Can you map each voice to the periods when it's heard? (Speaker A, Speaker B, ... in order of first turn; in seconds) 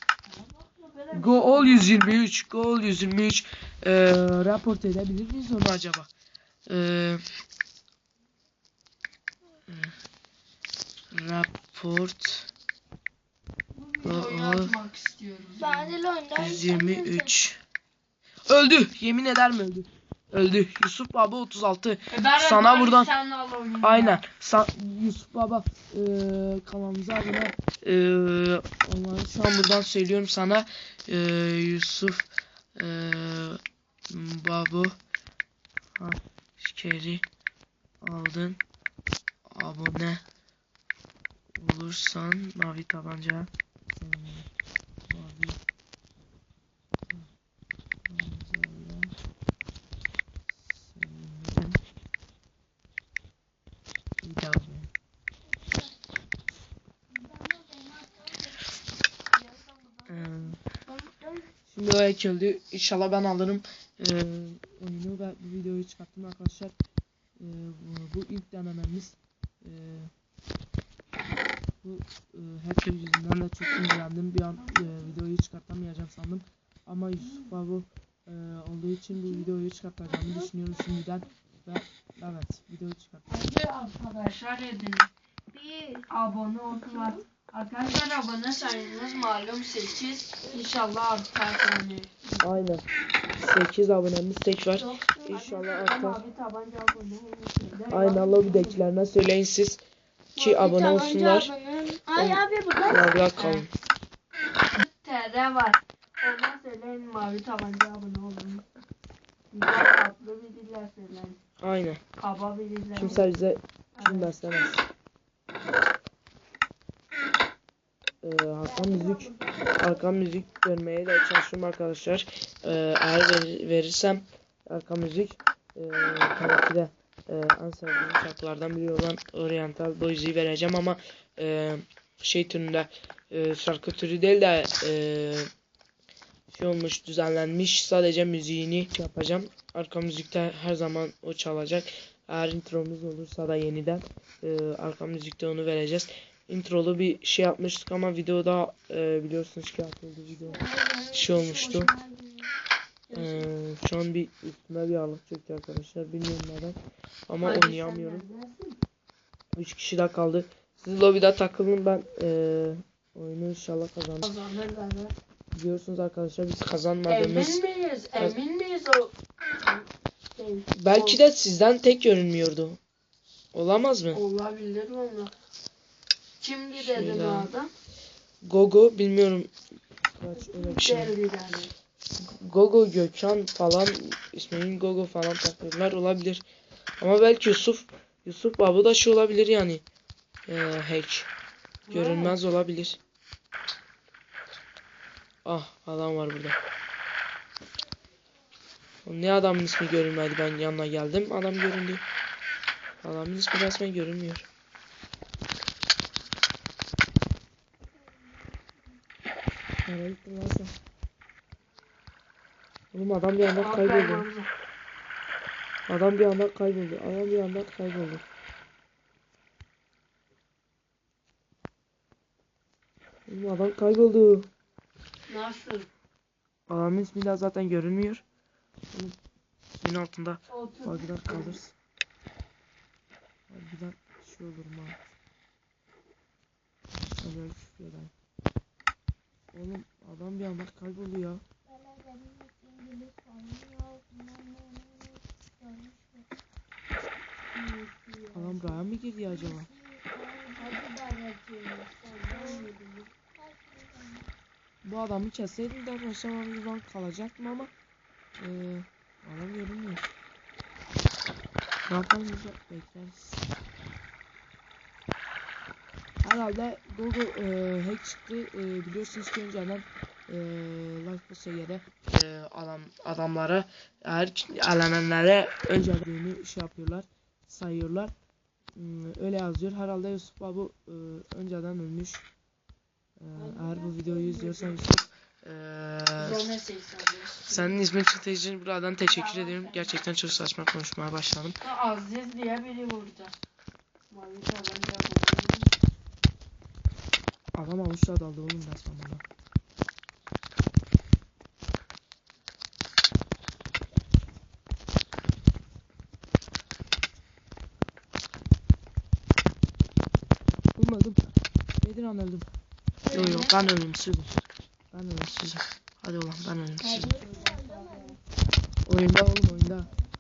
Speaker A: 0.2-2.2, 13.8-16.0, 22.1-24.2, 83.3-85.1, 86.1-92.4, 95.2-98.8, 100.4-100.6, 103.2-103.7, 104.7-108.6, 109.5-111.4, 112.2-113.2, 114.0-114.3, 118.7-119.6, 157.4-158.8, 164.2-165.2, 167.1-171.2, 174.1-175.3, 176.4-177.7, 180.3-181.7, 191.9-192.4, 213.5-214.5, 225.3-225.9, 230.5-231.6, 247.5-248.8, 250.6-253.1, 283.3-285.0, 286.2-287.8, 289.1-290.0, 291.6-293.4, 294.1-295.7, 313.1-313.5, 317.0-318.2
Speaker B: 1.1-6.1, 6.7-7.2, 9.7-9.9, 11.1-12.5, 14.0-14.7, 16.4-17.6, 18.5-23.1, 23.8-35.0, 36.0-37.2, 38.0-38.6, 39.5-40.2, 41.6-44.5, 45.1-45.6, 48.1-49.1, 50.5-51.8, 54.2-54.9, 60.1-60.6, 61.7-66.8, 67.4-70.1, 71.8-83.3, 92.4-92.8, 93.4-96.2, 97.9-99.8, 100.4-101.5, 102.1-103.7, 111.6-112.0, 113.0-114.8, 118.2-135.5, 136.5-151.9, 153.1-158.3, 159.6-164.3, 165.5-167.6, 170.8-172.8, 173.5-174.2, 176.8-177.5, 178.4-179.5, 180.2-181.1, 182.2-186.4, 187.0-189.8, 190.5-191.3, 191.9-193.0, 195.4-196.6, 199.1-202.0, 203.0-204.5, 209.8-210.7, 212.9-214.2, 215.9-218.2, 223.3-224.5, 226.7-228.2, 229.8-231.7, 233.5-235.0, 237.2-238.1, 239.5-241.4, 248.3-249.7, 254.8-257.7, 258.4-260.1, 261.9-263.4, 266.2-278.1, 278.8-282.2, 283.2-286.4, 287.5-291.6, 297.6-299.2, 310.8-311.2, 311.8-312.5, 313.1-314.4, 314.9-317.2, 318.9-319.9
Speaker C: 15.6-17.3, 57.1-58.3, 61.0-61.4, 85.5-86.1, 86.9-87.2, 94.8-95.2, 100.5-103.1, 150.5-152.5, 153.1-153.5, 241.7-246.3, 249.3-250.9, 252.3-252.7, 253.4-254.3, 313.1-313.6, 316.8-318.2